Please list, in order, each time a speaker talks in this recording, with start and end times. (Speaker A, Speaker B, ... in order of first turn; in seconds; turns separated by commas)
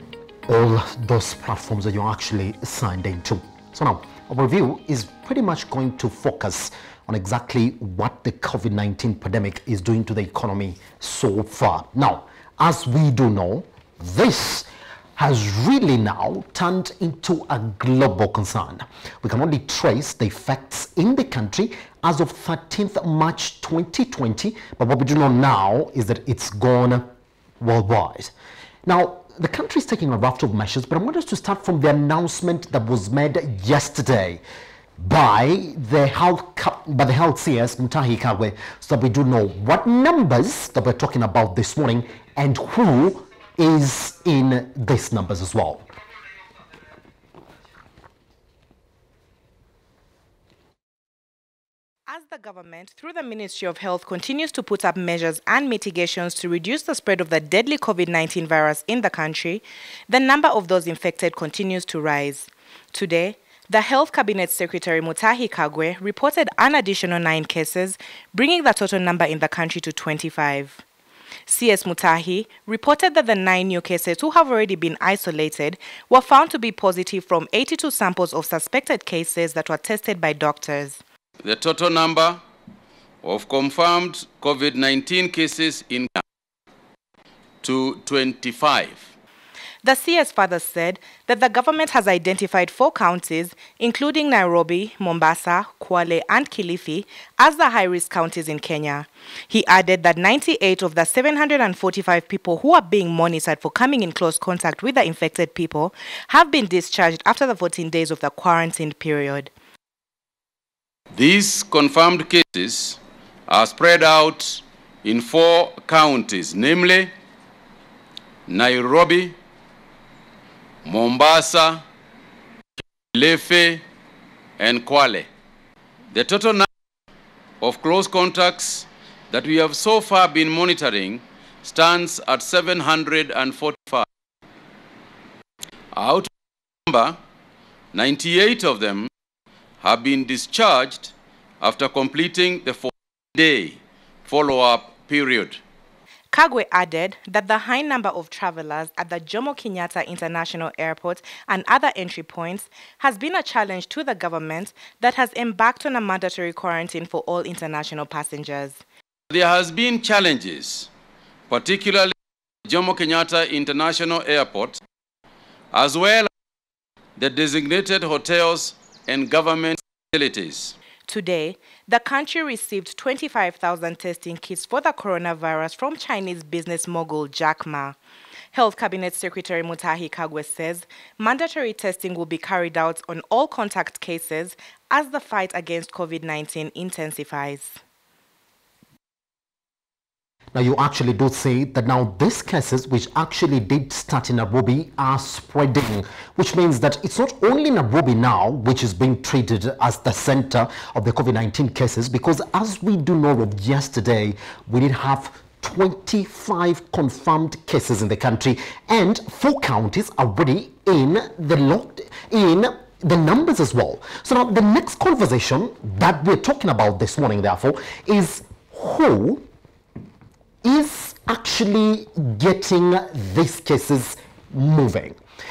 Speaker A: 0.5-27.1, Speaker A: 27.6-28.3, Speaker A: 28.9-34.4, Speaker A: 35.0-45.8, Speaker B: 52.1-70.8, Speaker B: 71.5-81.0, Speaker C: 81.4-82.4, Speaker C: 83.2-86.2, Speaker C: 87.6-89.1, Speaker B: 89.8-109.5, Speaker C: 111.1-117.1, Speaker C: 118.5-119.4, Speaker C: 120.8-121.8, Speaker C: 123.1-123.8, Speaker C: 124.6-125.3, Speaker C: 126.1-126.7, Speaker C: 127.6-134.1, Speaker C: 135.9-136.3, Speaker C: 136.9-137.2, Speaker C: 137.9-139.1, Speaker C: 139.8-145.6, Speaker B: 146.3-158.8, Speaker C: 159.3-160.9, Speaker C: 161.5-162.1, Speaker C: 162.7-164.8, Speaker C: 165.7-166.3, Speaker C: 167.2-170.7, Speaker B: 171.1-178.0, Speaker B: 178.5-187.8, Speaker A: 190.5-219.4, Speaker A: 220.6-225.2